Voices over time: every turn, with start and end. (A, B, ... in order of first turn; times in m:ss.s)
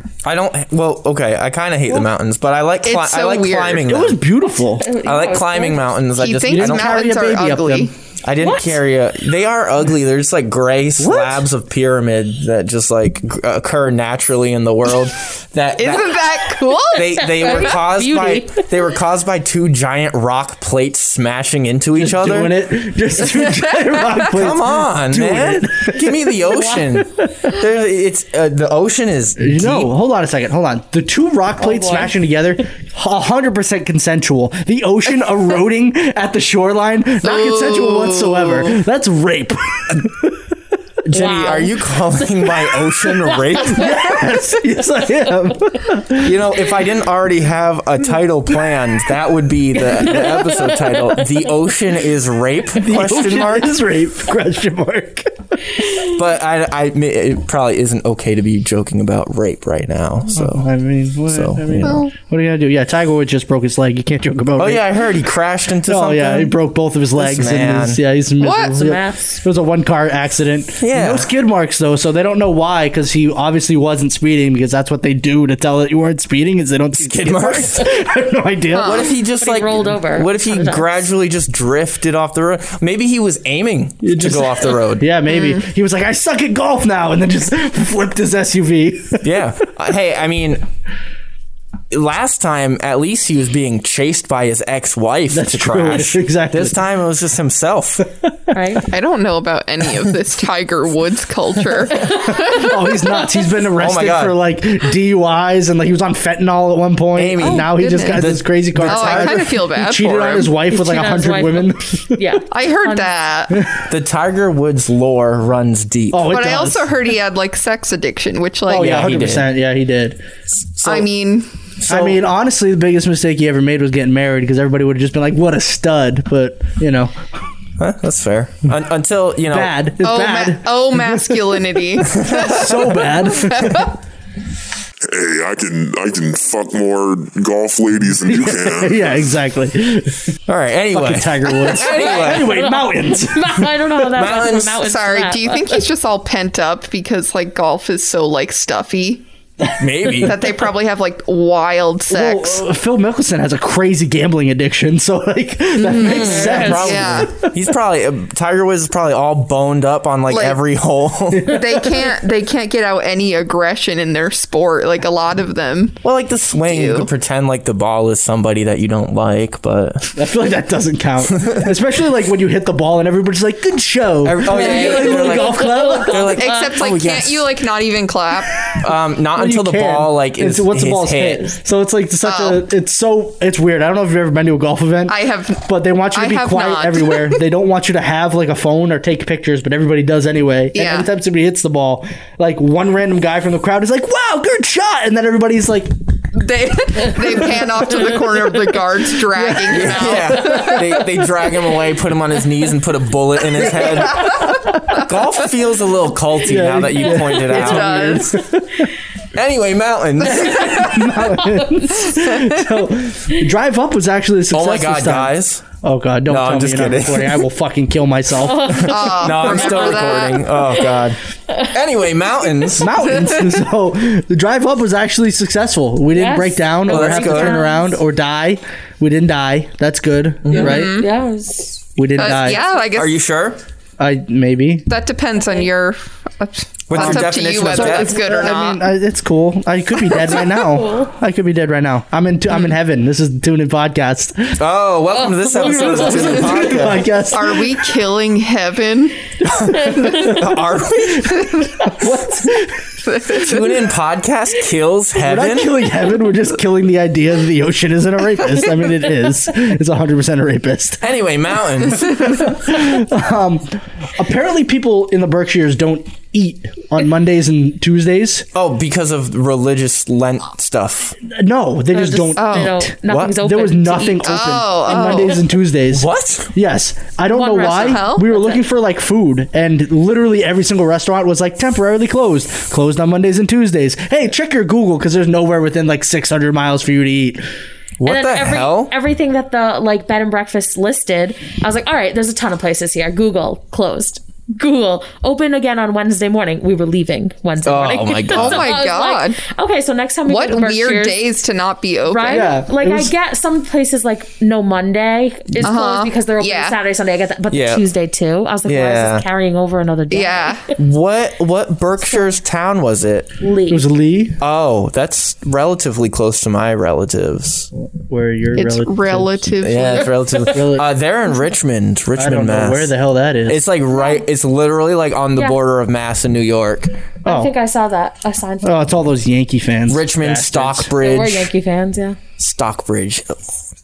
0:00.2-0:04.2 A
0:02.8-0:03.9 B
0:03.8-0:04.9 C
0:04.8-0:06.0 D
0:05.0-0:07.1 A
0:06.2-0:07.9 B
0:06.5-0:07.9 C
0:08.2-0:16.2 A
0:08.4-0:08.8 D
0:11.0-0:11.4 C
0:15.8-0:17.3 B
0:16.9-0:22.6 A
0:17.0-0:18.7 D
0:22.0-0:26.7 C
0:24.3-0:29.9 A
0:26.5-0:26.8 D
0:29.4-0:40.4 C
0:31.6-0:32.1 D
0:37.2-0:38.8 B
0:41.1-0:43.9 A
0:41.1-0:44.0 D
0:43.6-0:46.3 C
0:46.2-0:53.7 A
0:49.8-0:51.5 D
0:52.8-0:55.6 C
0:56.0-1:00.7 A
1:00.3-1:05.0 C
1:01.3-1:02.0 A
1:01.8-1:02.1 B
1:04.6-1:06.5 A
1:05.9-1:19.1 C
1:07.2-1:08.0 A
1:08.4-1:08.8 B
1:08.8-1:09.4 D
1:10.8-1:11.3 A
1:17.0-1:17.9 A
1:18.7-1:19.1 B
1:18.8-1:25.1 A
1:19.4-1:21.1 D
1:24.0-1:29.4 C
1:25.3-1:25.6 B
1:29.2-1:30.6 A
1:31.9-1:38.0 A
1:35.3-1:36.8 C
1:38.5-1:38.9 D
1:38.9-1:42.7 B
1:42.1-1:52.4 C
1:43.8-1:44.4 A
1:47.2-1:49.5 A
1:47.4-1:48.3 B
1:48.8-1:50.5 B
1:50.7-1:53.1 D
1:52.5-1:53.6 B
1:53.5-1:53.8 C
1:53.9-1:56.4 A
1:56.1-1:56.9 C
1:56.3-1:59.1 B
1:58.7-2:00.2 C
1:58.7-1:59.5 A
2:00.6-2:01.1 A
2:00.8-2:01.5 B
2:01.8-2:02.2 A
2:01.9-2:07.1 C
2:07.8-2:09.8 A
2:09.5-2:13.9 C
2:10.0-2:12.7 B
2:12.1-2:12.7 A
2:13.3-2:13.9 B
2:15.1-2:19.2 E
2:18.2-2:20.2 C
2:20.5-2:22.6 A
2:20.9-2:23.7 C
2:21.9-2:25.8 D
2:24.2-2:24.8 A
2:24.8-2:29.2 B
2:29.6-2:30.3 C
2:29.8-2:30.4 A
2:30.2-2:32.6 B
2:32.1-2:37.5 C
2:35.8-2:37.3 B
2:36.0-2:41.6 A
2:36.1-2:37.0 D
2:40.3-2:40.6 B
2:41.4-2:41.7 C
2:41.5-2:46.0 B
2:46.0-2:50.1 A
2:46.7-2:47.1 B
2:50.1-2:56.3 C
2:54.2-2:57.5 A
2:54.4-2:56.8 D
2:56.4-2:58.5 B
2:58.8-3:01.5 A
2:59.3-3:15.9 C
3:02.2-3:02.6 B
3:05.1-3:07.4 B
3:10.7-3:11.1 B
3:16.3-3:20.8 B
3:19.3-3:21.0 C
3:19.7-3:28.3 A
3:23.6-3:24.3 C
3:26.4-3:28.8 C
3:27.3-3:28.4 B
3:29.3-3:31.0 A
3:30.2-3:38.9 C
3:34.5-3:35.6 A
3:36.3-3:37.4 A
3:38.4-3:40.4 D
3:38.8-3:41.2 A
3:38.9-3:40.4 B
3:41.7-3:42.9 A
3:42.8-3:51.0 C
3:46.1-3:48.0 D
3:46.9-3:47.6 A
3:50.5-3:50.7 A
3:50.5-3:51.9 D
3:50.6-3:51.1 B
3:52.0-3:52.6 C
3:52.2-3:53.3 B
3:52.9-3:53.6 A
3:54.0-3:54.9 C
3:54.9-3:58.8 B
3:56.9-3:58.2 A
3:56.9-4:04.6 C
4:00.6-4:01.1 D
4:04.6-4:07.0 A
4:05.1-4:06.7 D
4:05.6-4:07.7 C
4:07.3-4:09.2 B
4:09.4-4:10.6 C
4:09.6-4:11.5 A
4:11.8-4:12.8 C
4:13.0-4:13.7 B
4:13.3-4:15.9 A
4:15.2-4:21.0 C
4:21.0-4:22.5 A
4:22.1-4:28.5 C
4:28.5-4:31.2 A
4:31.3-4:47.4 C
4:31.9-4:34.3 D
4:32.4-4:32.7 B
4:33.1-4:33.4 A
4:34.2-4:35.4 B
4:35.9-4:36.5 A
4:37.3-4:38.6 D
4:37.6-4:38.3 B
4:48.0-4:48.9 A
4:48.0-5:01.2 D
4:57.6-4:58.7 A
4:58.3-4:59.4 B
5:00.3-5:02.5 B
5:02.1-5:10.7 D
5:02.3-5:03.1 C
5:05.6-5:06.8 B
5:07.5-5:07.8 A
5:08.7-5:09.2 A
5:10.1-5:10.6 B
5:10.8-5:13.3 A
5:12.0-5:12.3 D
5:13.4-5:13.9 D
5:13.7-5:14.4 C
5:14.4-5:17.7 A
5:18.1-5:19.5 C
5:18.6-5:20.1 B
5:19.6-5:22.9 A
5:20.5-5:20.9 C
5:22.2-5:23.6 C
5:23.5-5:26.9 A
5:23.9-5:24.2 D
5:27.2-5:27.5 C
5:27.2-5:28.9 D
5:28.6-5:30.9 C
5:29.9-5:31.5 A
5:31.0-5:32.2 D
5:32.4-5:33.4 A